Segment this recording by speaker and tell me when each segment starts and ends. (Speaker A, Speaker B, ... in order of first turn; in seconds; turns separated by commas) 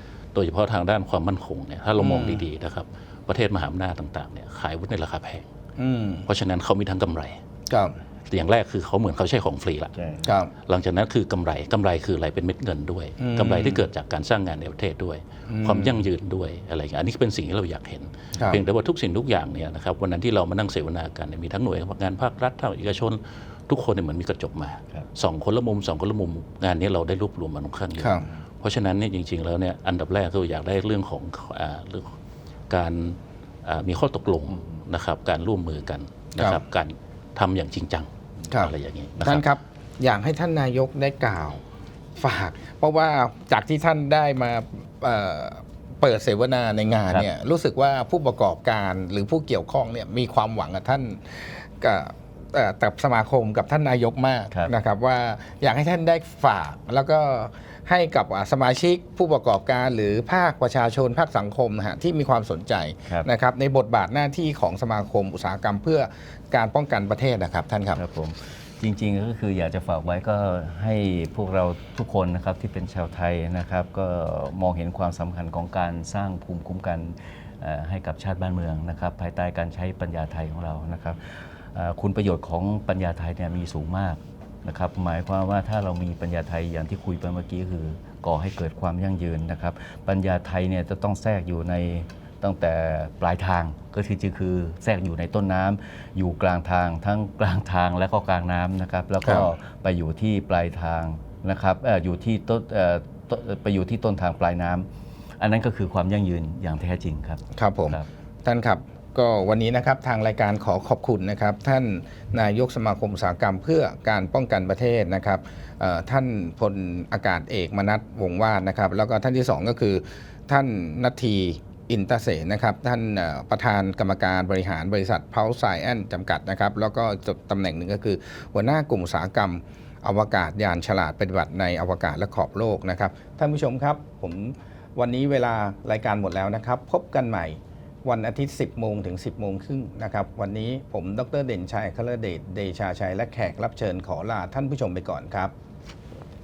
Speaker A: 0.3-5.5, Speaker B: 2.0-2.5, Speaker B: 5.8-6.3, Speaker A: 6.3-7.4, Speaker B: 7.7-8.0, Speaker A: 8.3-10.1, Speaker B: 10.2-10.5, Speaker A: 10.7-32.1, Speaker B: 13.2-13.8, Speaker B: 15.5-16.1, Speaker B: 28.0-28.3, Speaker A: 32.7-39.5, Speaker B: 38.5-41.6, Speaker B: 42.2-68.0, Speaker C: 68.0-104.9, Speaker B: 99.2-99.5, Speaker C: 105.4-108.1, Speaker B: 107.5-145.5